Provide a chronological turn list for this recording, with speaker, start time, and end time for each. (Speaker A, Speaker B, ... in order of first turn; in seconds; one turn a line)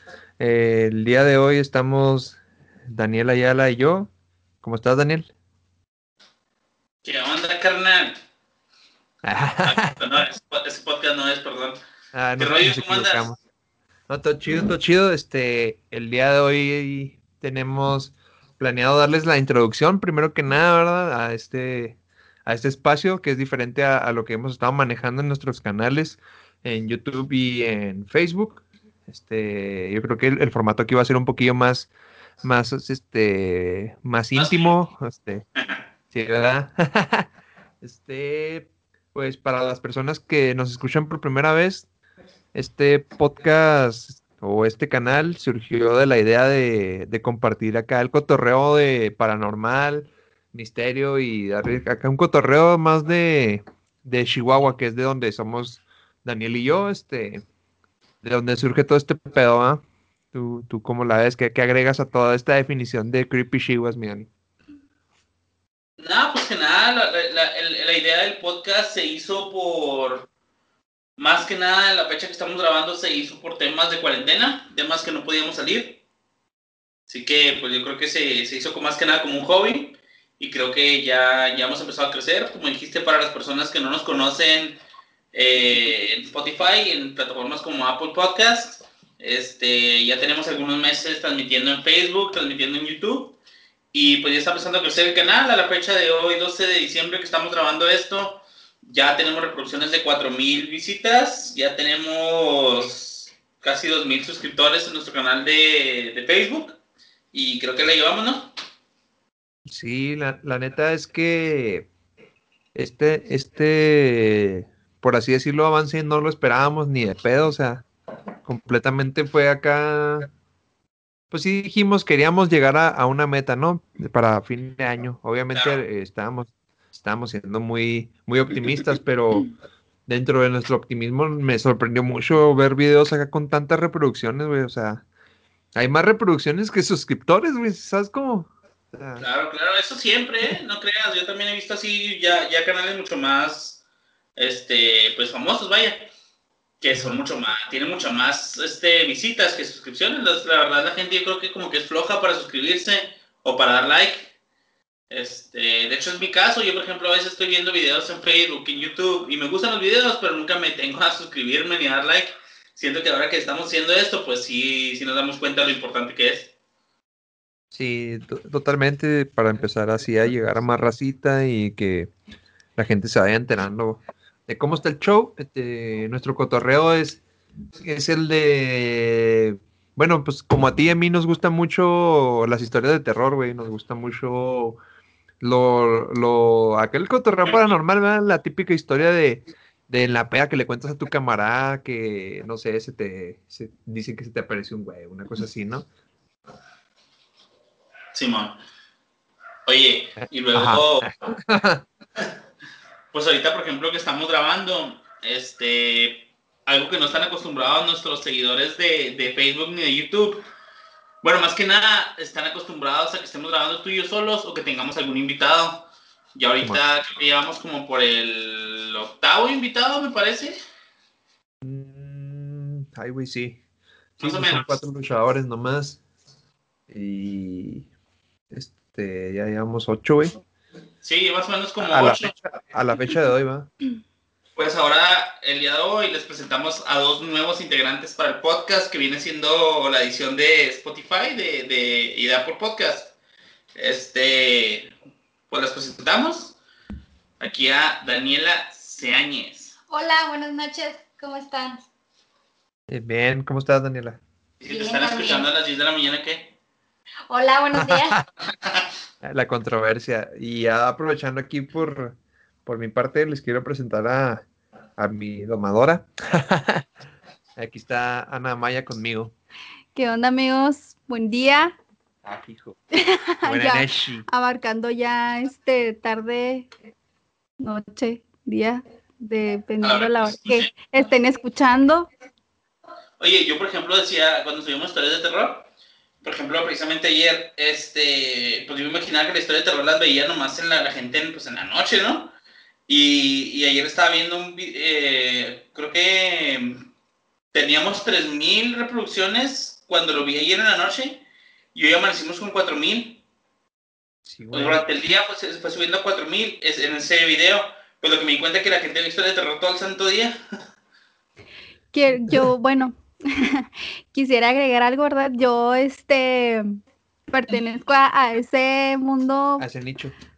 Speaker A: 0.4-4.1
Speaker A: 4.6-5.3
Speaker B: 7.0-8.2
Speaker A: 9.2-9.9
Speaker B: 9.6-11.8
Speaker A: 12.1-13.4
Speaker B: 12.4-13.3
Speaker A: 14.1-31.9
Speaker A: 32.4-35.4
Speaker B: 34.3-34.7
Speaker A: 36.1-37.3
Speaker A: 37.8-41.9
Speaker A: 42.5-57.4
Speaker A: 58.2-64.3
Speaker B: 66.0-70.3
Speaker B: 71.2-76.0
Speaker B: 77.1-84.8
Speaker B: 85.3-93.3
Speaker B: 93.9-106.8
Speaker B: 107.3-108.5
Speaker A: 109.7-111.9
Speaker A: 112.7-117.8
Speaker A: 118.4-120.3
Speaker A: 121.3-129.5
Speaker B: 125.5-125.8
Speaker A: 130.1-135.0
Speaker A: 135.8-139.2
Speaker B: 139.2-143.8
Speaker B: 144.3-146.1
Speaker B: 146.8-154.3
Speaker A: 146.9-147.2
Speaker B: 155.1-166.5
Speaker A: 167.7-172.1
Speaker A: 172.8-177.2
Speaker A: 177.8-184.8
Speaker A: 185.4-195.8
Speaker B: 198.1-198.6
Speaker B: 199.7-201.1
Speaker A: 200.5-201.8
Speaker B: 203.1-210.4
Speaker B: 211.2-220.6
Speaker A: 221.6-223.6
Speaker A: 224.2-226.0
Speaker B: 224.2-224.8
Speaker A: 226.9-227.9
Speaker A: 228.5-230.4
Speaker B: 231.0-232.3
Speaker A: 231.8-233.7
Speaker B: 234.6-243.1
Speaker B: 243.7-244.9
Speaker B: 245.5-246.6
Speaker B: 247.4-249.8
Speaker C: 249.9-251.8
Speaker A: 252.9-254.2
Speaker B: 254.6-256.5
Speaker C: 254.6-255.5
Speaker C: 257.3-258.2
Speaker A: 257.8-258.2
Speaker B: 258.5-258.8
Speaker A: 259.2-264.4
Speaker A: 265.0-266.9
Speaker A: 267.6-269.3
Speaker D: 269.9-271.7
Speaker A: 272.2-272.8
Speaker D: 272.9-276.7
Speaker A: 273.4-274.3
Speaker D: 277.6-282.1
Speaker B: 279.8-280.7
Speaker B: 283.2-285.7
Speaker B: 286.2-292.3
Speaker B: 292.9-296.8
Speaker B: 297.5-301.2
Speaker B: 301.7-303.2
Speaker A: 304.3-304.8
Speaker B: 304.5-310.4
Speaker D: 311.9-316.8
Speaker D: 317.3-319.6
Speaker A: 319.6-320.1